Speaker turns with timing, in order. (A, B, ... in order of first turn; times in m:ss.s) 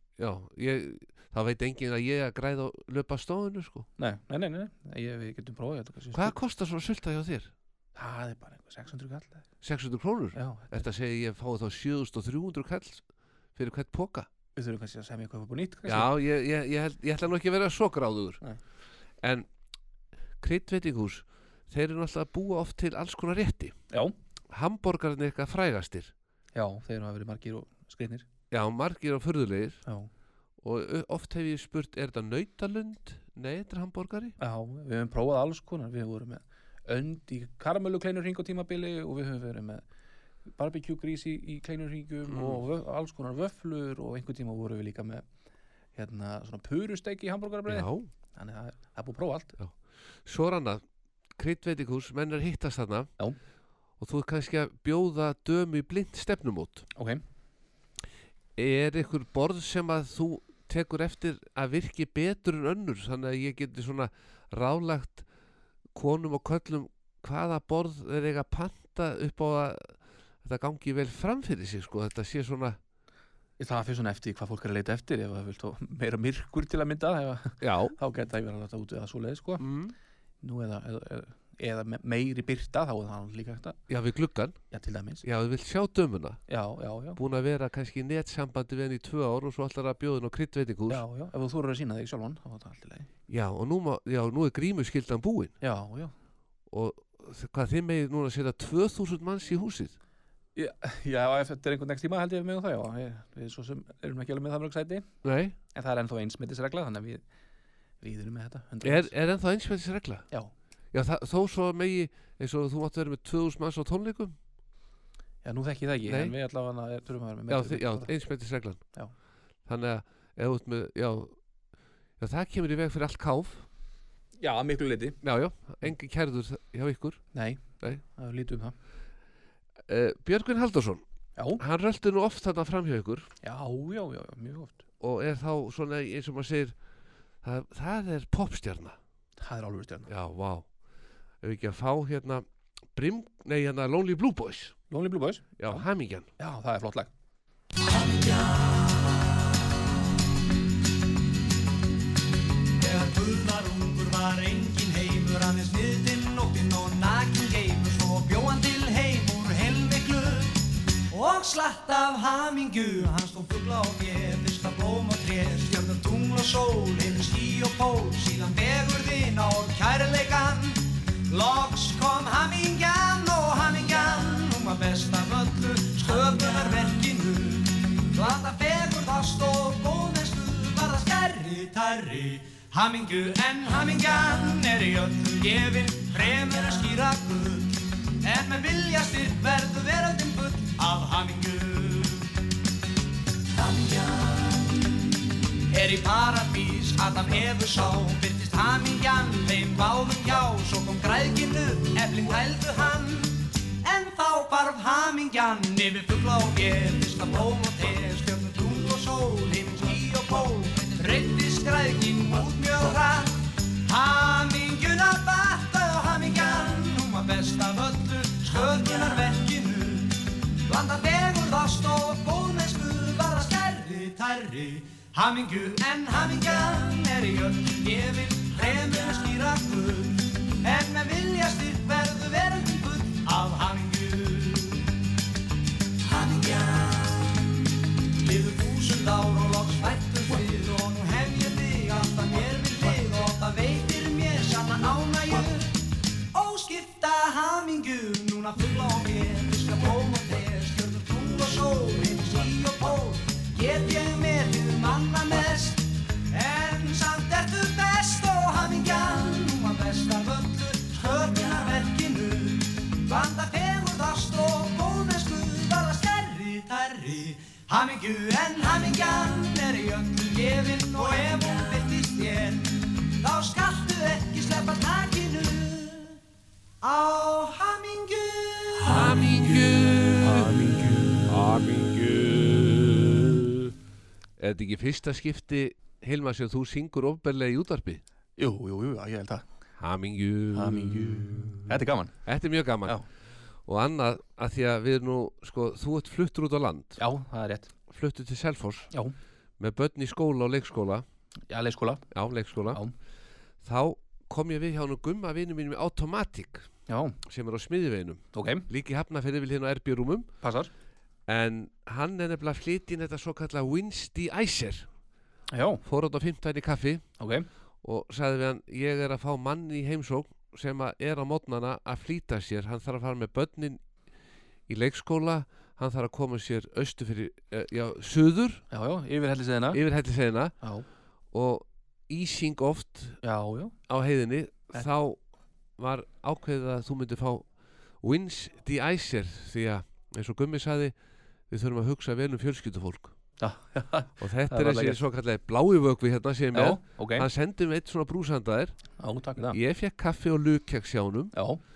0:00.2-0:03.9 A
0:04.0-0:06.3 B
0:06.1-0:07.5 A
0:08.0-0:09.4 B
0:09.6-0:13.0 A
0:10.3-0:10.8 B
0:13.6-0:14.3 A
0:14.6-0:16.1 B
0:15.9-0:18.4 A
0:19.2-0:19.5 A
0:20.4-0:23.7 A
0:24.5-0:26.1 A
0:26.5-0:28.2 B
0:28.5-0:29.8 A
0:30.6-0:34.3 A
0:34.4-0:39.8 B
0:40.6-0:45.2 B
0:42.3-0:42.6 A
0:46.0-0:49.6 B
0:47.7-0:48.1 A
0:50.2-0:50.8 A
0:51.3-0:53.1 A
0:54.0-0:56.9 A
0:57.0-0:57.2 B
0:58.6-1:05.2 A
1:05.9-1:12.8 A
1:13.6-1:19.6 B
1:17.6-1:17.9 A
1:19.6-1:19.9 A
1:20.4-1:23.8 B
1:23.9-1:24.6 A
1:24.7-1:25.2 B
1:25.2-1:26.4 A
1:26.5-1:27.2 B
1:27.2-1:31.0 A
1:30.9-1:33.1 B
1:33.3-1:35.5 A
1:35.6-1:36.1 B
1:36.7-1:40.0 A
1:40.5-1:45.0 B
1:45.2-1:45.6 A
1:45.7-1:47.2 B
1:48.0-1:49.1 B
1:48.8-1:50.2 A
1:50.9-1:54.4 A
1:55.4-1:58.1 B
1:56.0-1:56.3 A
1:57.5-1:58.8 A
1:59.7-2:01.3 A
2:02.2-2:03.6 A
2:04.4-2:05.2 B
2:05.2-2:07.2 A
2:07.3-2:08.7 B
2:09.9-2:11.0 A
2:11.6-2:13.3 A
2:13.4-2:14.8 B
2:15.0-2:16.8 A
2:17.4-2:19.0 A
2:19.4-2:20.1 B
2:20.1-2:20.7 A
2:21.4-2:24.8 A
2:24.9-2:25.8 B
2:25.6-2:26.3 A
2:26.4-2:27.1 B
2:28.0-2:28.7 C
2:32.8-2:40.6 C
2:41.1-3:12.3 C
3:13.6-3:14.4 C
3:15.7-3:54.9 C
3:56.1-3:57.3 C
3:58.2-4:05.7 C
4:06.3-4:36.2 C
4:36.8-4:38.9 C
4:38.9-4:40.5 A
4:40.2-4:41.3 B
4:41.3-4:43.7 A
4:44.4-4:48.0 A
4:48.4-4:49.4 B
4:49.8-4:53.0 A
4:50.5-4:52.1 B
4:53.6-4:57.0 A
4:57.0-4:57.7 B
4:57.9-4:58.9 A
4:59.6-5:01.0 A
5:01.5-5:02.0 B
5:02.1-5:02.8 A
5:03.6-5:06.6 A
5:06.9-5:07.2 B
5:07.2-5:10.3 A
5:08.3-5:08.7 B
5:10.4-5:10.7 B
5:11.3-5:14.9 A
5:15.5-5:15.8 B
5:15.8-5:17.0 A
5:17.2-5:17.5 B
5:17.8-5:23.8 A
5:24.7-5:28.6 A
5:28.7-5:29.8 B
5:29.7-5:30.5 A
5:30.6-5:30.8 B
5:31.3-5:33.2 A
5:33.2-5:33.7 B
5:33.9-5:35.2 A
5:35.8-5:37.4 A
5:38.0-5:40.9 A
5:41.5-5:43.1 A
5:43.4-5:45.0 B
5:44.2-5:48.8 A
5:46.5-5:47.3 B
5:49.0-5:49.6 B
5:49.5-5:51.3 A
5:51.3-5:51.6 B